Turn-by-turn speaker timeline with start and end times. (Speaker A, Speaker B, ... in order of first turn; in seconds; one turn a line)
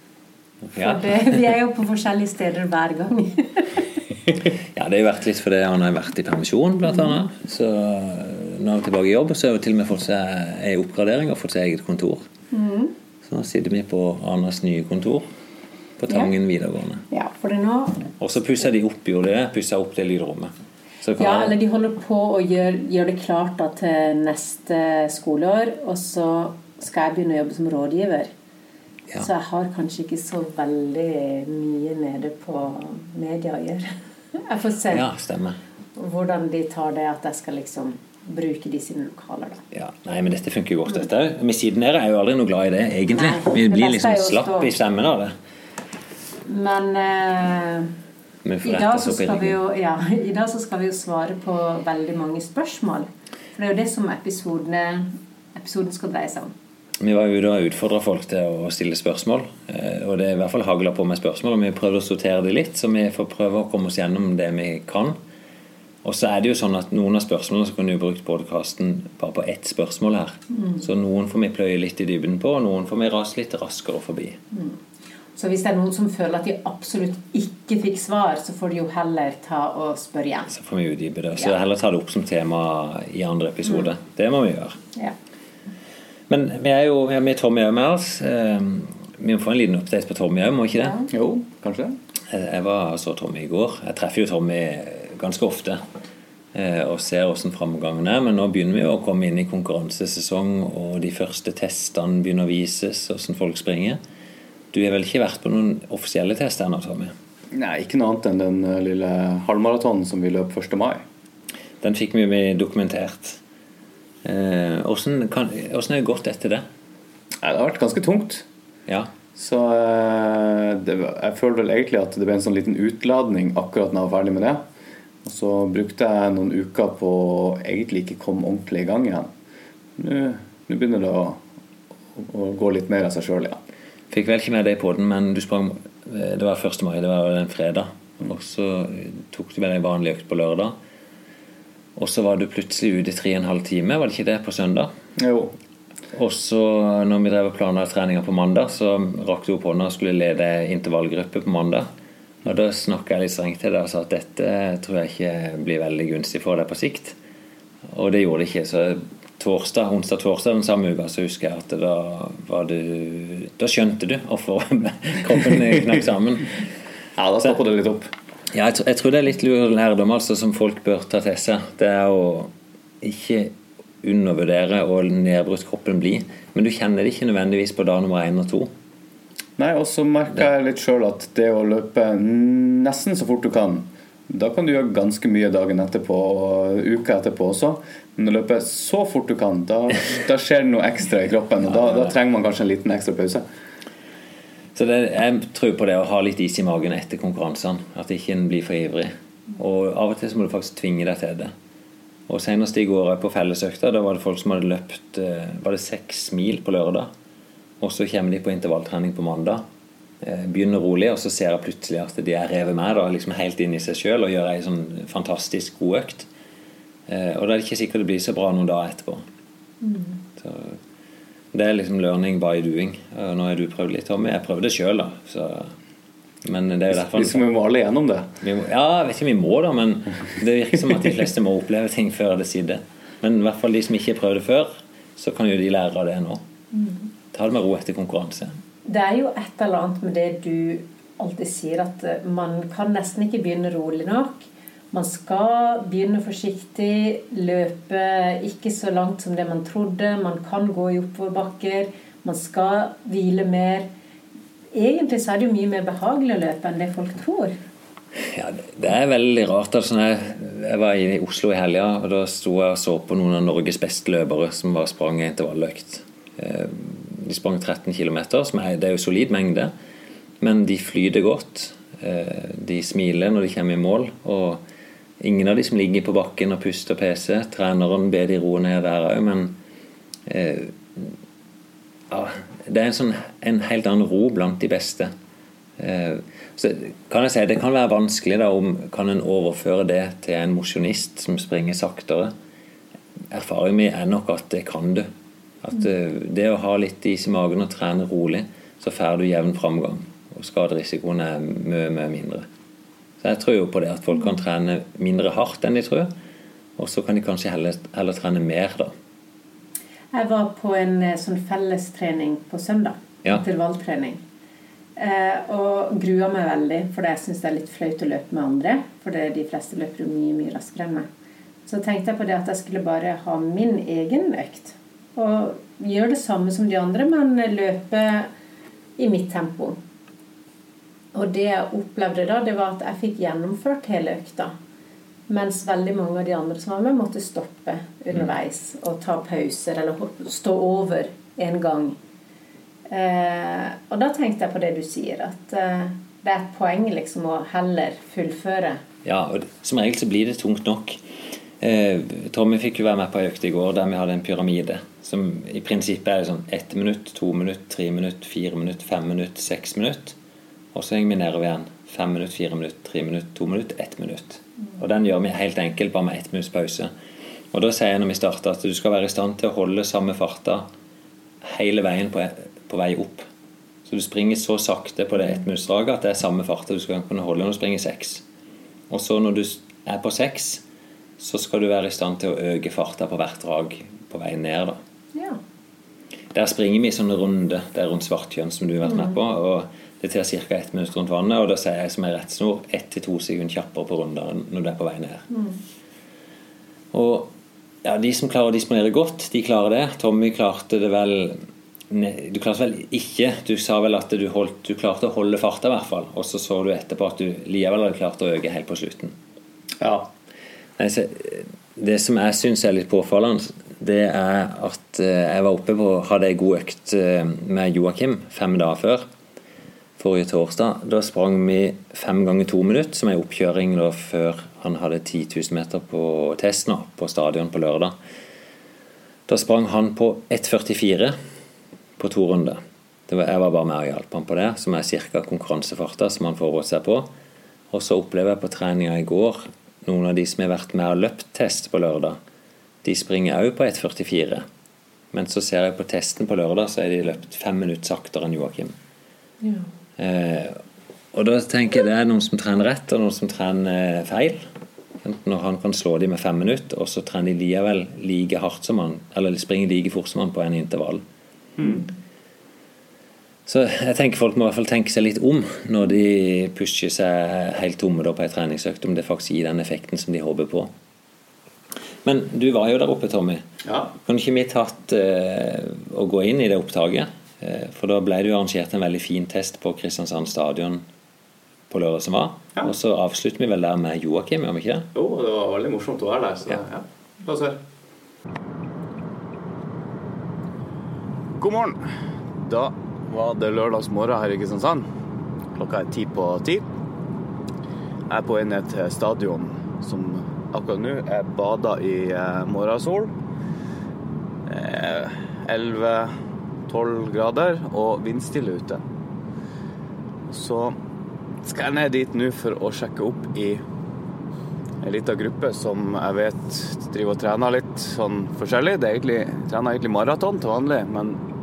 Speaker A: 0.6-1.5
Speaker B: 0.8-3.9
Speaker A: 4.7-12.2
Speaker B: 12.5-12.9
Speaker A: 13.2-15.3
Speaker A: 16.0-17.0
Speaker B: 17.1-18.1
Speaker A: 18.2-21.6
Speaker B: 21.2-28.3
Speaker B: 29.2-35.1
Speaker A: 34.9-35.6
Speaker B: 36.0-39.6
Speaker A: 39.7-45.4
Speaker B: 43.1-44.8
Speaker B: 46.5-47.9
Speaker A: 48.5-49.6
Speaker B: 48.6-56.5
Speaker A: 57.0-65.2
Speaker A: 66.0-74.4
Speaker B: 70.5-70.8
Speaker B: 74.5-74.8
Speaker B: 75.3-80.5
Speaker A: 80.5-84.8
Speaker A: 86.3-91.0
Speaker B: 90.8-91.1
Speaker C: 91.1-92.0
Speaker A: 92.3-95.8
Speaker A: 96.5-104.0
Speaker A: 104.7-107.1
Speaker C: 107.5-111.0
Speaker A: 111.8-113.4
Speaker A: 114.2-116.7
Speaker C: 117.4-118.5
Speaker C: 119.3-124.6
Speaker C: 125.2-129.3
Speaker C: 130.0-131.4
Speaker C: 132.2-133.6
Speaker A: 134.1-140.8
Speaker A: 142.0-144.9
Speaker C: 145.2-145.5
Speaker A: 146.1-151.9
Speaker A: 152.4-157.2
Speaker A: 157.9-166.7
Speaker C: 167.2-168.1
Speaker A: 168.5-178.7
Speaker C: 179.6-193.4
Speaker A: 191.7-192.1
Speaker A: 194.8-201.5
Speaker A: 202.3-207.1
Speaker A: 207.8-209.6
Speaker A: 210.2-216.3
Speaker A: 217.1-219.2
Speaker B: 219.8-220.2
Speaker A: 220.4-220.8
Speaker A: 221.5-225.7
Speaker A: 226.4-227.4
Speaker C: 226.9-228.3
Speaker A: 228.4-236.4
Speaker B: 236.7-237.1
Speaker A: 237.3-238.6
Speaker B: 238.8-253.9
Speaker B: 254.7-257.6
Speaker A: 258.2-269.7
Speaker A: 270.4-274.6
Speaker A: 275.2-279.6
Speaker A: 280.3-281.2
Speaker A: 282.1-285.1
Speaker A: 285.8-292.3
Speaker A: 293.3-295.1
Speaker A: 295.6-302.5
Speaker A: 303.2-306.1
Speaker A: 306.8-308.9
Speaker B: 310.1-314.2
Speaker B: 315.0-321.1
Speaker B: 321.7-328.3
Speaker B: 329.0-329.8
Speaker B: 331.1-334.6
Speaker B: 335.3-342.0
Speaker B: 342.9-348.8
Speaker A: 349.0-351.0
Speaker A: 351.6-360.2
Speaker A: 360.7-366.9
Speaker A: 367.5-370.7
Speaker A: 371.4-373.3
Speaker A: 373.9-378.2
Speaker A: 378.9-380.6
Speaker A: 381.2-384.8
Speaker B: 385.1-385.4
Speaker A: 386.3-395.3
Speaker B: 388.9-389.1
Speaker B: 395.3-395.6
Speaker A: 396.9-397.3
Speaker A: 397.8-409.1
Speaker C: 409.8-410.1
Speaker A: 410.8-419.1
Speaker A: 420.0-427.9
Speaker A: 429.3-431.2
Speaker A: 432.0-437.1
Speaker A: 437.7-442.2
Speaker A: 442.8-444.5
Speaker A: 445.1-448.8
Speaker B: 449.4-449.7
Speaker A: 450.0-450.6
Speaker A: 451.1-454.5
Speaker A: 455.0-461.0
Speaker C: 461.6-461.9
Speaker A: 463.5-470.7
Speaker A: 472.1-473.4
Speaker C: 473.6-473.9
Speaker A: 474.0-480.9
Speaker A: 481.7-484.9
Speaker C: 484.9-487.6
Speaker C: 491.4-491.8
Speaker C: 492.4-494.9
Speaker C: 495.6-496.6
Speaker C: 498.1-503.1
Speaker C: 504.5-506.1
Speaker C: 506.7-508.8
Speaker C: 510.3-510.8
Speaker C: 511.5-513.6
Speaker C: 514.8-521.2